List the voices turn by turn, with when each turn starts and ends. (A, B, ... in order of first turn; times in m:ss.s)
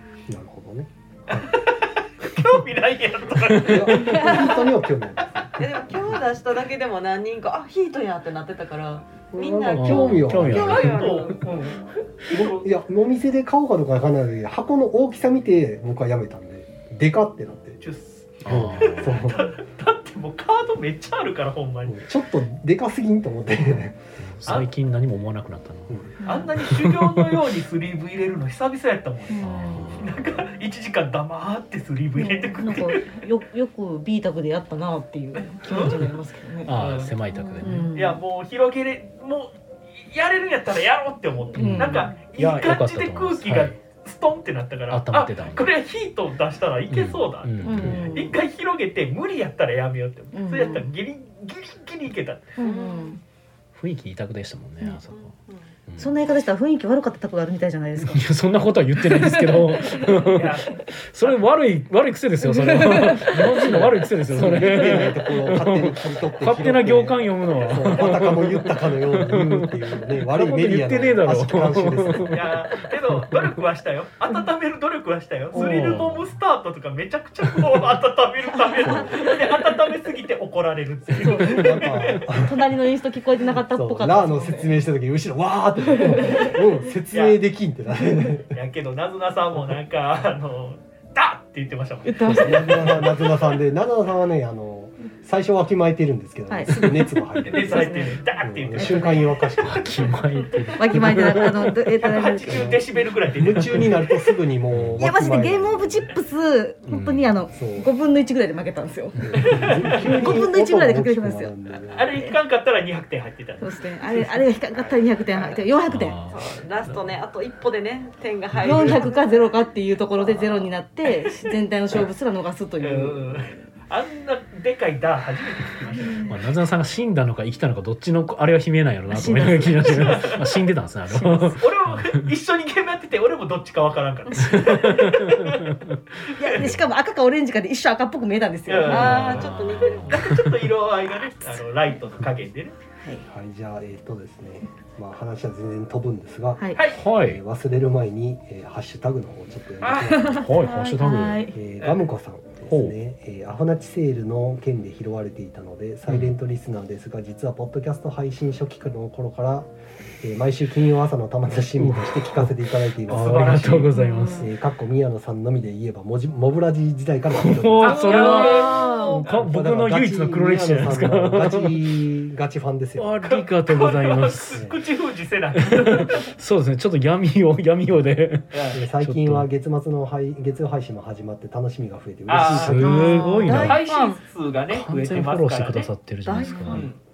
0:00.3-0:01.5 A
0:01.3-0:04.7 B
0:03.6-0:05.8 A
0:04.0-0:04.5 C
0:05.5-0:11.8 D
0:09.3-0:10.9 A
0:09.7-0:11.1 E
0:10.5-0:12.7 B
0:12.3-0:17.8 A
0:17.8-0:22.1 B
0:18.4-0:19.3 E
0:18.5-0:19.5 A
0:21.9-0:24.0 A
0:24.2-0:26.0 E
0:26.2-0:26.5 C
0:26.2-0:33.2 B
0:26.6-0:27.3 E
0:29.3-0:29.9 C
0:29.4-0:30.2 E
0:29.9-0:30.3 A
0:32.2-0:36.7 C
0:35.4-0:36.1 B
0:35.8-0:36.0 E
0:36.6-0:37.9 E
0:36.7-0:52.5 B
0:37.3-0:38.2 C
0:41.5-0:42.1 C
0:41.5-0:43.8 E
0:44.9-0:45.7 E
0:46.9-0:48.2 E
0:47.6-0:48.4 C
0:50.3-0:50.8 C
0:52.6-0:53.2 C
0:52.6-0:53.2 D
0:53.7-0:55.3 E
0:55.1-0:55.7 D
0:55.9-0:56.1 E
0:56.0-0:58.3 C
0:58.0-1:13.5 E
0:58.9-1:00.3 C
1:00.3-1:01.4 B
1:02.4-1:03.5 C
1:03.3-1:12.6 A
1:12.3-1:22.3 B
1:15.5-1:16.0 C
1:15.5-1:16.3 E
1:18.5-1:19.6 C
1:18.8-1:19.3 A
1:21.2-1:22.8 A
1:21.2-1:24.8 C
1:23.4-1:28.6 A
1:25.9-1:26.5 C
1:27.1-1:27.4 B
1:28.5-1:33.1 B
1:32.0-1:33.1 C
1:32.2-1:40.1 A
1:36.5-1:38.2 C
1:37.4-1:39.4 B
1:38.8-1:39.5 C
1:39.6-1:41.9 E
1:40.7-1:42.8 C
1:40.9-1:41.5 A
1:42.0-1:44.1 B
1:42.4-1:42.8 A
1:43.3-1:46.1 A
1:44.7-1:45.0 E
1:45.0-1:51.5 C
1:46.9-1:47.3 E
1:47.5-1:47.9 A
1:49.2-1:52.2 A
1:49.3-1:49.6 E
1:49.4-1:50.4 B
1:51.9-1:54.4 B
1:53.6-1:56.2 C
1:55.3-1:55.7 D
1:55.9-1:57.1 E
1:56.2-1:59.5 D
1:58.6-1:59.0 E
1:58.6-2:03.6 C
2:00.1-2:00.7 D
2:02.8-2:06.3 B
2:05.9-2:06.4 C
2:06.3-2:12.2 E
2:09.1-2:10.3 C
2:09.7-2:10.5 B
2:11.4-2:15.8 B
2:14.3-2:15.1 C
2:14.4-2:16.0 E
2:16.3-2:19.5 C
2:16.4-2:16.7 B
2:16.6-2:16.9 E
2:18.7-2:22.7 B
2:18.8-2:20.3 D
2:18.9-2:20.6 E
2:23.2-2:30.5 A
2:26.7-2:27.0 B
2:26.9-2:27.4 E
2:29.8-2:30.2 B
2:30.0-2:31.6 C
2:30.2-2:31.5 E
2:31.5-2:39.7 A
2:31.8-2:32.1 B
2:32.7-2:33.0 E
2:36.1-2:36.3 E
2:40.2-2:48.1 A
2:41.8-2:42.5 E
2:43.0-2:44.5 E
2:43.1-2:44.0 B
2:43.9-2:44.5 C
2:47.3-2:51.9 E
2:47.8-2:49.3 B
2:48.0-2:49.2 C
2:48.2-2:49.1 D
2:49.1-2:53.3 A
2:53.0-2:54.6 E
2:53.2-2:56.3 B
2:55.6-2:59.5 E
2:58.5-2:58.8 B
2:58.7-3:03.1 A
3:02.3-3:05.9 B
3:02.4-3:03.8 E
3:02.7-3:04.2 D
3:02.9-3:03.6 C
3:04.7-3:06.9 E
3:06.2-3:06.9 D
3:06.4-3:06.8 C
3:06.7-3:07.0 B